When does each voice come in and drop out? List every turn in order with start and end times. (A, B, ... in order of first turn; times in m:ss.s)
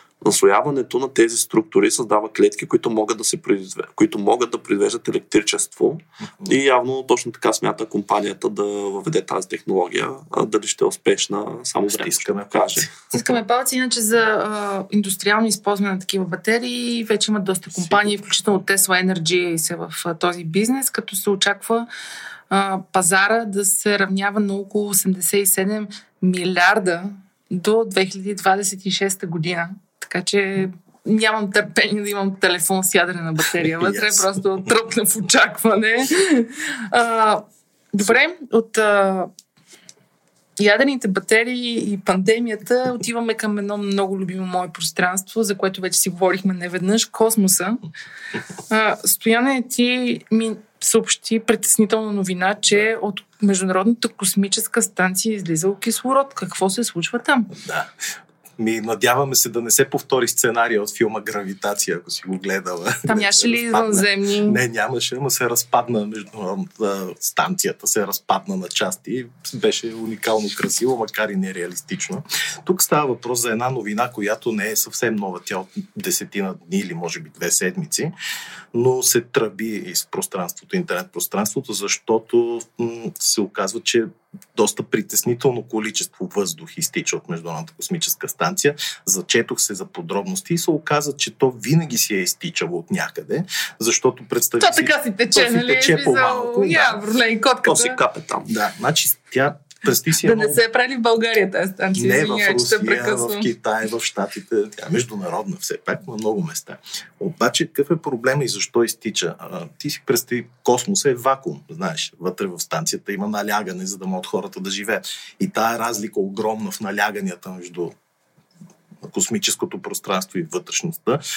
0:00.2-0:12.9 A
0:11.9-0:12.9 B
0:13.1-0:21.9 C
0:22.5-0:39.3 C
0:33.8-0:34.3 B
0:40.6-0:47.8 C
0:48.7-0:57.5 C
0:57.5-0:57.9 B
0:58.6-1:18.1 B
1:03.1-1:04.6 C
1:18.7-1:37.0 B
1:34.6-1:38.0 C
1:37.7-1:38.5 A
1:38.5-1:40.6 B
1:40.2-1:43.5 C
1:42.0-1:57.9 B
1:59.0-2:01.2 B